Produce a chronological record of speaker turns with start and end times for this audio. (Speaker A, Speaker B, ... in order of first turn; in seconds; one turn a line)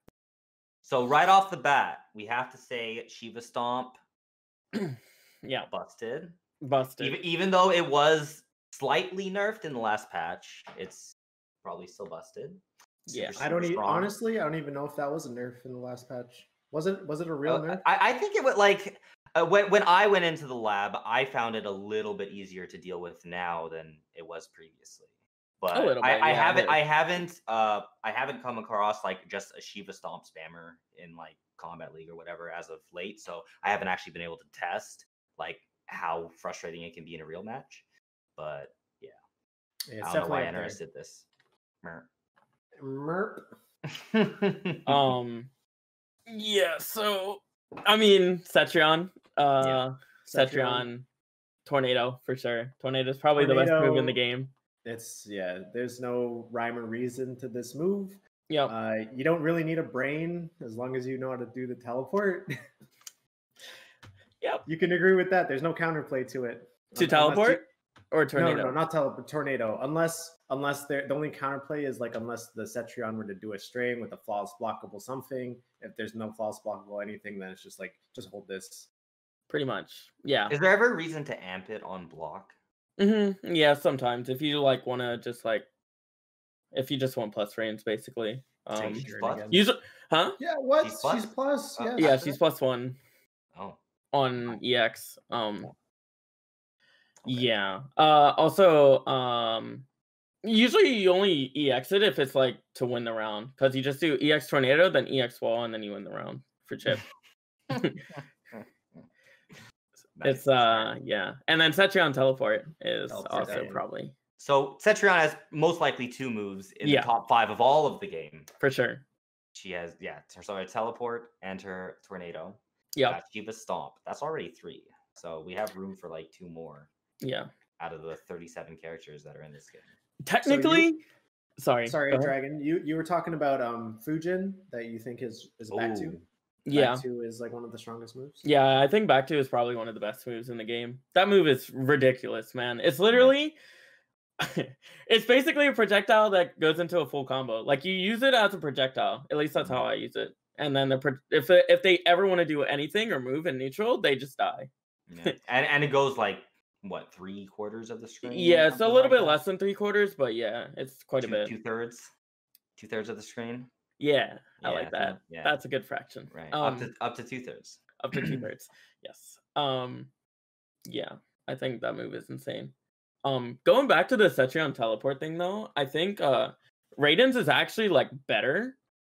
Speaker A: 0.8-4.0
Speaker B: 4.7-5.7
Speaker A: 5.7-6.4
Speaker B: 6.6-7.2
Speaker A: 7.0-14.1
Speaker B: 13.1-13.4
Speaker C: 13.4-17.9
Speaker A: 17.4-25.1
Speaker A: 25.6-37.8
Speaker B: 25.7-26.8
Speaker A: 38.4-39.1
Speaker C: 39.9-40.8
Speaker A: 40.0-41.3
Speaker A: 41.8-42.1
Speaker C: 42.8-43.5
Speaker A: 44.0-45.0
Speaker B: 44.9-45.5
Speaker B: 46.3-51.1
Speaker C: 50.3-50.9
Speaker B: 51.6-54.5
Speaker C: 53.4-54.2
Speaker C: 54.9-62.5
Speaker C: 64.7-67.7
Speaker B: 67.0-68.8
Speaker C: 68.3-78.9
Speaker B: 79.5-80.6
Speaker A: 80.5-82.6
Speaker B: 83.0-85.7
Speaker B: 86.7-90.4
Speaker A: 88.8-89.5
Speaker C: 88.9-89.6
Speaker C: 90.4-92.2
Speaker A: 90.8-92.4
Speaker B: 92.0-93.0
Speaker B: 94.1-95.7
Speaker A: 97.2-97.5
Speaker B: 97.3-99.9
Speaker B: 100.4-107.0
Speaker A: 107.7-108.6
Speaker B: 107.8-108.0
Speaker A: 110.2-111.0
Speaker B: 110.2-114.2
Speaker C: 113.1-113.8
Speaker A: 113.3-113.7
Speaker A: 114.4-118.5
Speaker B: 116.8-117.1
Speaker B: 118.6-119.0
Speaker A: 119.5-126.9
Speaker B: 127.2-127.5
Speaker A: 127.8-129.9
Speaker B: 130.2-131.0
Speaker C: 130.4-130.9
Speaker B: 131.6-132.3
Speaker C: 131.8-136.2
Speaker A: 135.7-136.3
Speaker B: 136.7-137.0
Speaker C: 136.7-138.4
Speaker B: 138.4-143.6
Speaker B: 144.4-154.7
Speaker A: 149.6-149.9
Speaker A: 155.1-159.4
Speaker B: 158.2-161.5
Speaker A: 161.2-162.1
Speaker A: 162.8-163.7
Speaker B: 164.0-166.9
Speaker A: 164.6-165.6
Speaker A: 166.3-168.5
Speaker B: 168.0-170.1
Speaker B: 170.9-172.7
Speaker B: 173.2-178.8